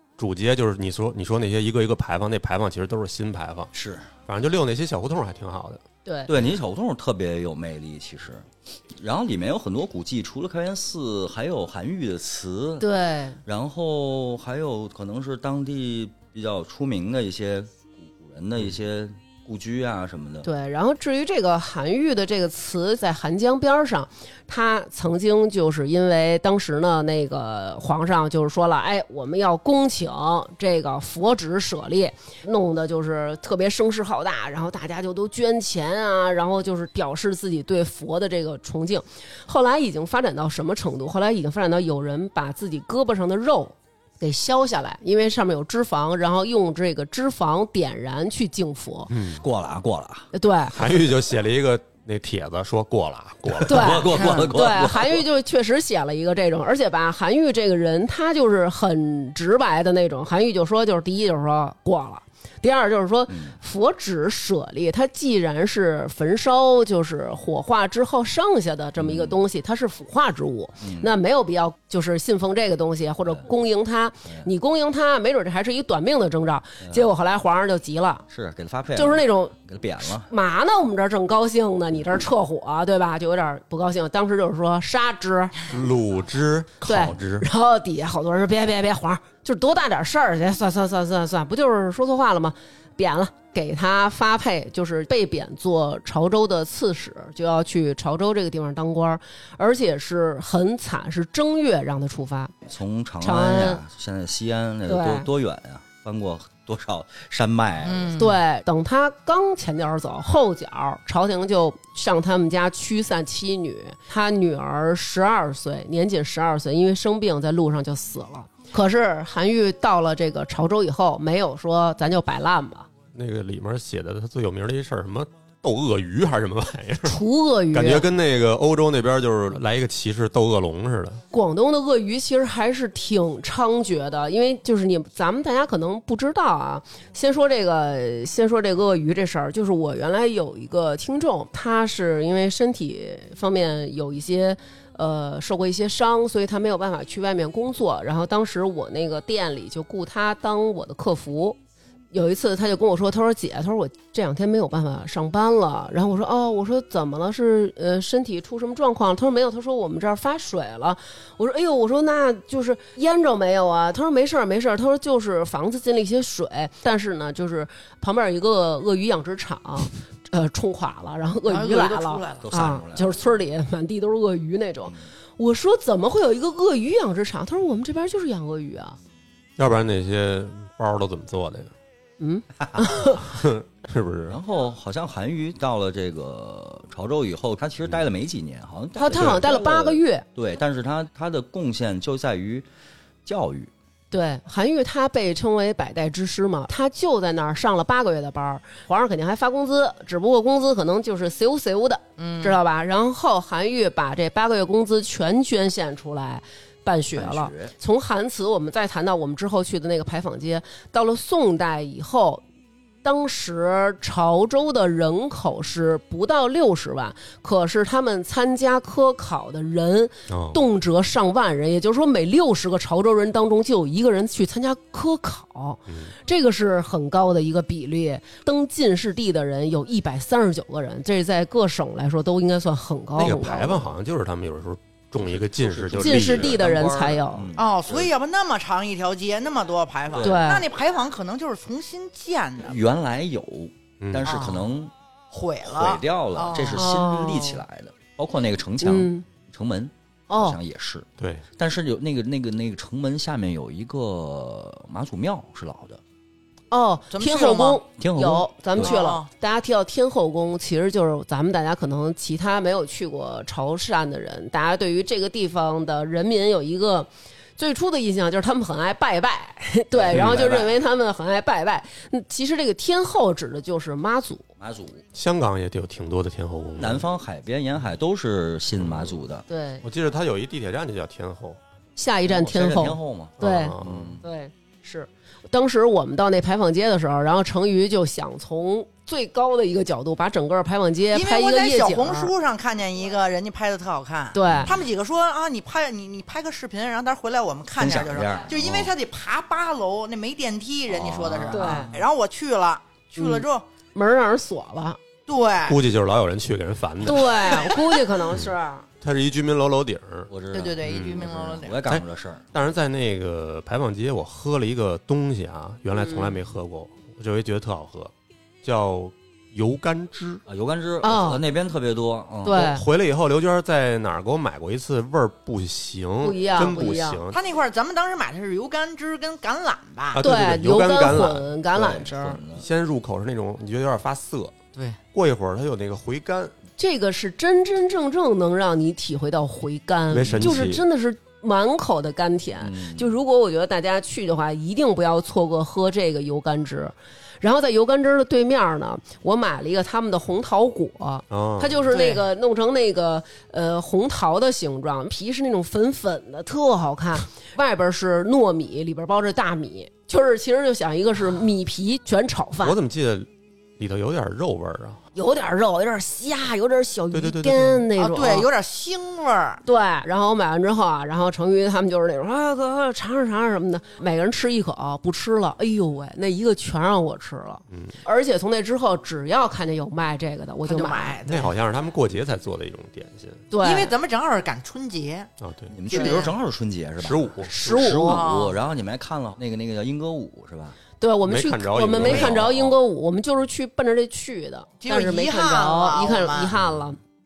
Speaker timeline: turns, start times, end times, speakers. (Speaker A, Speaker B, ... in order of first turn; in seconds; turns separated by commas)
Speaker A: 0.2-3.7, Speaker B: 3.7-4.1, Speaker A: 4.3-5.8, Speaker C: 6.0-6.3, Speaker B: 6.3-12.9, Speaker C: 12.8-13.4, Speaker B: 13.4-20.5, Speaker C: 20.4-49.1, Speaker A: 49.1-49.4, Speaker B: 49.4-50.3, Speaker C: 50.3-50.8, Speaker A: 50.7-54.1, Speaker B: 53.5-55.2, Speaker C: 53.6-78.2, Speaker D: 54.2-54.5, Speaker B: 63.3-63.5, Speaker B: 69.0-69.4, Speaker B: 70.8-71.1, Speaker B: 78.3-80.3, Speaker C: 79.0-79.5, Speaker C: 80.3-85.5, Speaker A: 85.7-87.5, Speaker C: 86.8-102.5, Speaker B: 102.7-108.2, Speaker C: 103.2-103.8, Speaker C: 104.9-105.3, Speaker D: 107.8-108.4, Speaker C: 108.2-122.9, Speaker A: 123.1-127.2, Speaker C: 127.0-128.1, Speaker A: 127.7-131.2, Speaker C: 131.3-151.6, Speaker C: 152.1-179.0, Speaker D: 171.4-172.5, Speaker B: 172.4-173.1, Speaker A: 179.6-181.7, Speaker C: 182.2-183.2, Speaker A: 183.2-184.4, Speaker B: 184.3-192.7, Speaker C: 189.0-190.2, Speaker B: 193.2-193.7, Speaker C: 194.1-212.4, Speaker D: 202.2-202.6, Speaker B: 207.1-207.7, Speaker C: 213.0-233.9, Speaker A: 220.3-220.6, Speaker A: 225.9-226.1, Speaker A: 233.2-236.6, Speaker B: 235.2-238.1, Speaker C: 236.0-237.5, Speaker D: 237.6-242.8, Speaker B: 240.1-240.5, Speaker C: 240.2-240.7, Speaker B: 242.6-244.9, Speaker A: 244.0-244.4, Speaker D: 244.2-244.7, Speaker D: 245.3-246.8, Speaker B: 245.7-256.0, Speaker C: 246.7-247.6, Speaker C: 248.8-249.2, Speaker C: 250.3-250.6, Speaker A: 251.2-251.4, Speaker C: 256.7-274.5, Speaker D: 257.1-257.8, Speaker B: 258.0-259.0, Speaker D: 258.8-259.3, Speaker B: 269.9-270.8, Speaker B: 274.6-275.0, Speaker A: 275.1-277.0, Speaker B: 276.8-279.4, Speaker C: 279.5-279.8, Speaker A: 279.8-281.6, Speaker C: 282.0-292.3, Speaker B: 282.2-284.2, Speaker A: 283.4-284.2, Speaker D: 291.1-303.6, Speaker C: 294.3-294.7, Speaker B: 294.5-294.8, Speaker B: 297.8-298.9, Speaker B: 300.9-301.9, Speaker C: 301.5-301.9, Speaker C: 303.1-305.0, Speaker D: 305.3-305.8, Speaker A: 305.6-307.7, Speaker C: 307.0-308.8, Speaker A: 309.0-310.3, Speaker B: 310.3-312.4, Speaker D: 310.5-311.8, Speaker A: 310.8-311.3, Speaker A: 311.9-318.1, Speaker C: 315.9-316.4, Speaker A: 318.6-320.4, Speaker B: 320.4-322.7, Speaker C: 321.0-321.4, Speaker C: 322.4-322.8, Speaker A: 322.5-327.4, Speaker C: 326.2-327.2, Speaker D: 327.3-330.2, Speaker A: 330.1-331.5, Speaker C: 330.2-332.4, Speaker B: 331.7-332.6, Speaker A: 332.5-334.6, Speaker A: 335.1-336.5, Speaker C: 336.8-362.8, Speaker A: 340.1-340.8, Speaker B: 340.3-340.7, Speaker B: 342.6-343.1, Speaker A: 351.3-351.8, Speaker D: 351.9-352.2, Speaker A: 362.6-365.0, Speaker C: 365.1-368.5, Speaker A: 367.1-367.8, Speaker D: 368.0-369.6, Speaker C: 369.6-381.2, Speaker A: 377.7-378.0, Speaker D: 380.6-381.5, Speaker A: 381.3-383.4, Speaker C: 383.5-383.9, Speaker D: 383.6-385.3, Speaker A: 385.4-385.8, Speaker B: 385.7-390.8, Speaker D: 385.9-386.3, Speaker C: 385.9-386.2, Speaker A: 387.0-387.5, Speaker C: 387.5-388.3, Speaker D: 388.0-388.6, Speaker C: 391.0-397.0, Speaker A: 391.2-392.8, Speaker D: 392.0-392.3, Speaker D: 394.8-396.5